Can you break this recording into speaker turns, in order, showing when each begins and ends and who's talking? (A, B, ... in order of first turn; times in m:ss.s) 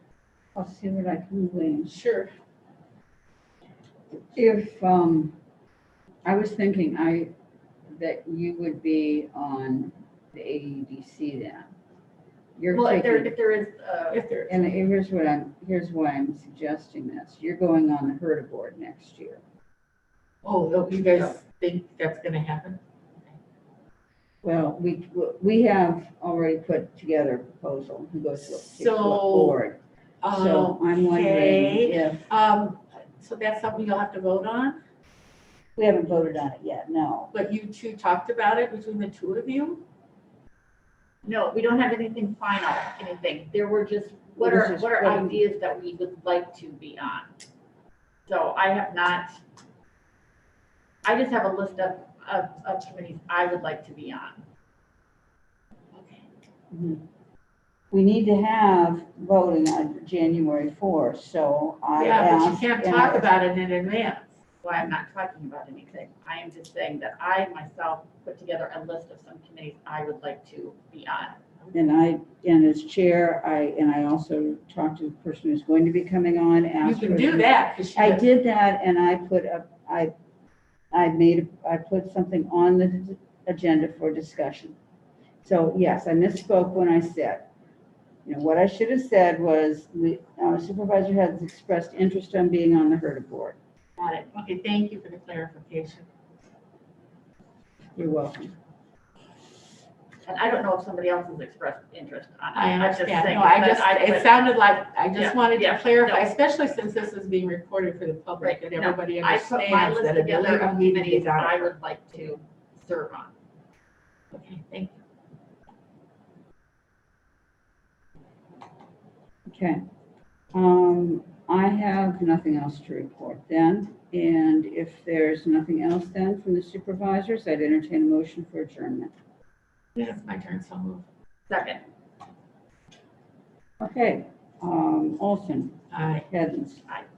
0:00.6-0:02.0 A
0:01.9-0:02.3 B
0:04.3-0:05.4 A
0:06.2-0:07.3 A
0:07.9-0:11.7 A
0:12.6-0:13.4 A
0:12.7-0:14.2 C
0:14.1-0:14.8 B
0:14.5-0:19.4 A
0:20.4-0:22.8 B
0:24.4-0:32.3 A
0:28.4-0:29.6 B
0:30.2-0:34.8 B
0:35.8-0:37.3 A
0:37.3-0:39.8 B
0:41.2-0:47.3 C
0:44.4-0:45.4 A
0:48.3-0:49.4 C
0:51.0-0:54.4 C
0:55.9-0:56.2 B
0:56.7-0:57.0 A
0:57.9-1:03.3 A
1:02.0-1:04.3 B
1:04.6-1:11.4 C
1:11.7-1:20.1 A
1:16.8-1:18.3 B
1:20.9-1:24.8 A
1:25.4-1:27.5 A
1:28.2-1:33.6 A
1:34.0-1:36.1 B
1:38.0-1:38.6 A
1:40.2-1:44.4 C
1:42.6-1:51.7 B
1:45.2-1:46.3 C
1:48.4-1:53.3 C
1:54.3-1:55.0 B
1:59.5-1:59.8 A
2:00.5-2:09.1 A
2:10.0-2:11.1 B
2:11.5-2:11.8 C
2:13.8-2:16.9 A
2:15.9-2:16.3 B